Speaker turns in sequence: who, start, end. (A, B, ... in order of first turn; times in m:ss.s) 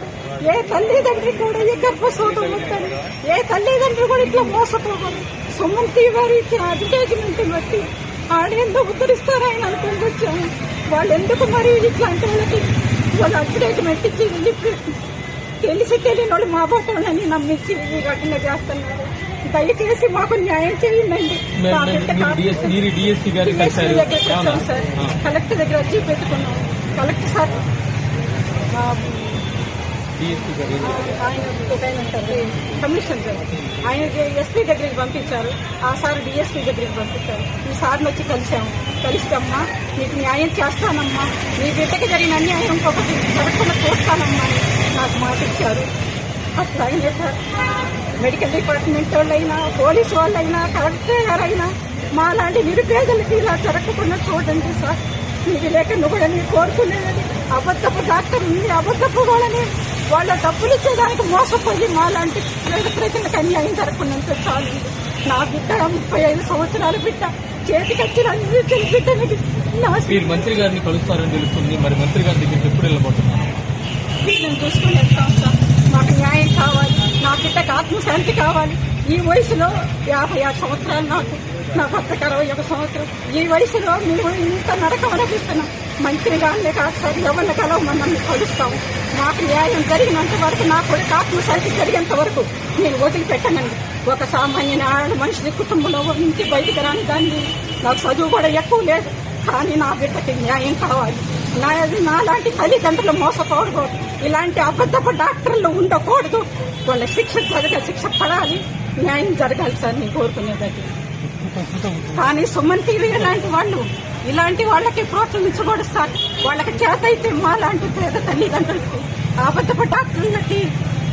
0:00.5-0:15.0 A
0:15.6-0:22.8 A
0:21.6-0:25.2 B
0:23.4-0:27.6 A
0:28.7-0:29.5 A
0:30.2-0:31.2 B
0:30.8-0:45.9 A
0:46.6-0:47.4 A
0:48.1-1:10.6 A
1:10.1-1:13.6 B
1:14.2-1:50.9 A
1:51.3-1:52.3 B
1:52.2-2:00.7 A